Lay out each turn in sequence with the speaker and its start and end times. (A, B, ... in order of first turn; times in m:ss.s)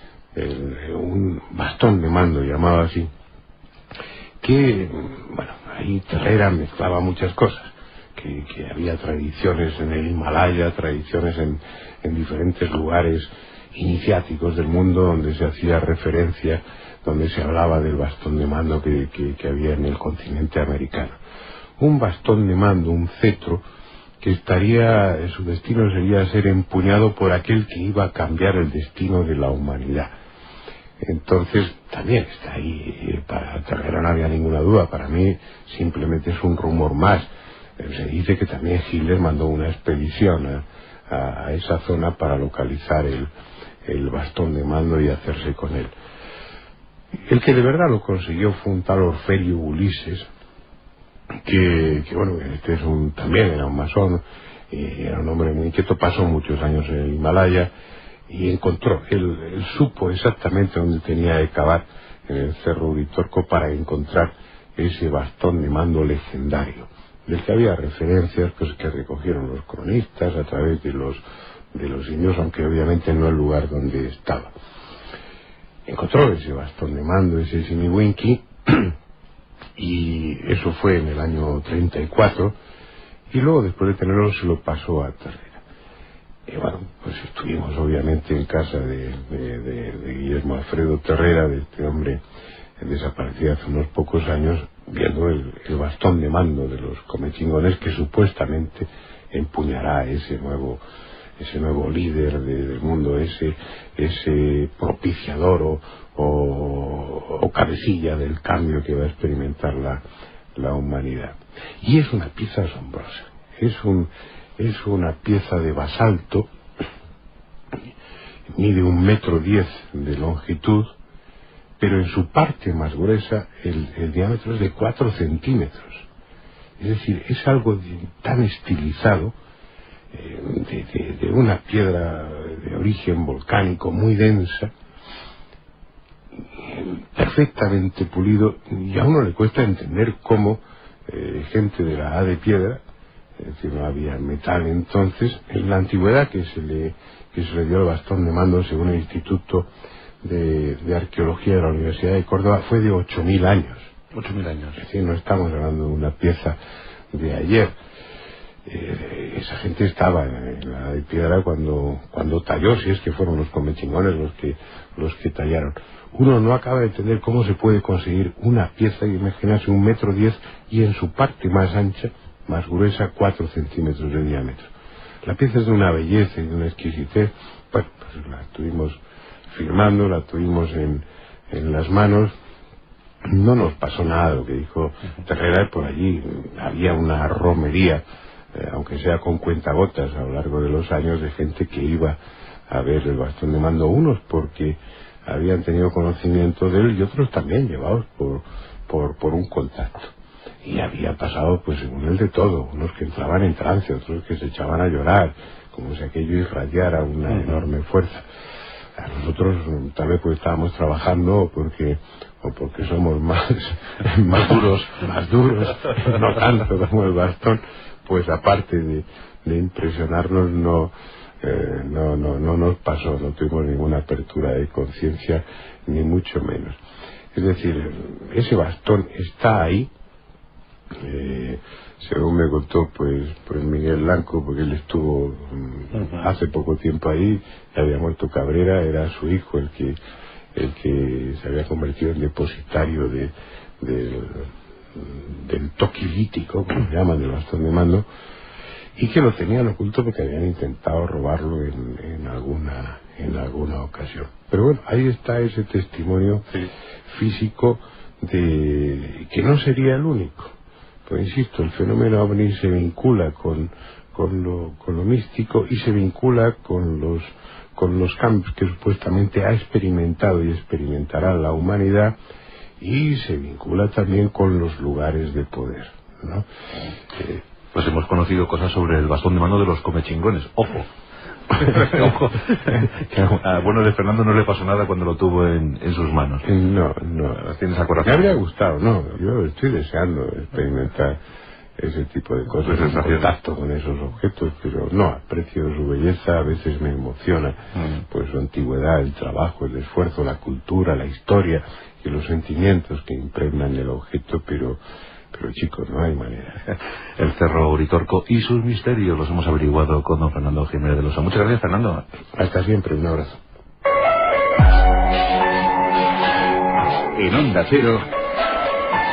0:00.4-0:03.1 A
0:04.4-0:21.2 A
0:21.8-0:23.6 A
0:24.2-0:30.1 A
0:31.0-0:43.3 A
0:43.8-0:45.9 A
0:47.3-0:50.3 A
0:51.4-0:57.7 A
0:58.3-1:11.2 A
1:11.7-1:14.5 A
1:15.9-1:18.9 A
1:19.8-1:22.6 A
1:23.3-1:25.6 A
1:26.5-1:32.2 A
1:32.8-1:40.8 A
1:41.4-1:50.0 A
1:50.6-1:56.5 A
1:58.6-2:00.9 A
2:01.8-2:06.1 A
2:06.8-2:09.4 A
2:10.1-2:14.7 A
2:16.6-2:22.8 A
2:23.4-2:29.7 A
2:30.2-2:33.9 A
2:34.1-2:34.8 B
2:34.8-2:36.6 A
2:37.1-2:37.7 A
2:38.7-2:54.7 A
2:55.2-2:59.0 A
2:59.5-3:02.3 A
3:03.2-3:08.0 A
3:08.5-3:12.2 A
3:12.7-3:20.1 A
3:20.6-3:28.2 A
3:29.0-3:46.8 A
3:47.3-3:49.9 A
3:51.0-4:00.0 A
4:00.6-4:08.0 A
4:09.0-4:16.5 A
4:17.1-4:20.5 A
4:21.1-4:32.2 A
4:32.8-4:36.5 A
4:37.2-4:37.4 A
4:37.7-4:40.9 B
4:41.6-4:46.4 B
4:46.4-4:47.5 A
4:47.4-4:48.4 B
4:48.0-4:51.2 A
4:51.8-4:57.6 A
4:52.6-4:53.3 B
4:58.1-5:04.8 A
5:05.3-5:06.7 A
5:07.2-5:12.0 B
5:12.4-5:13.4 A
5:17.1-5:18.0 B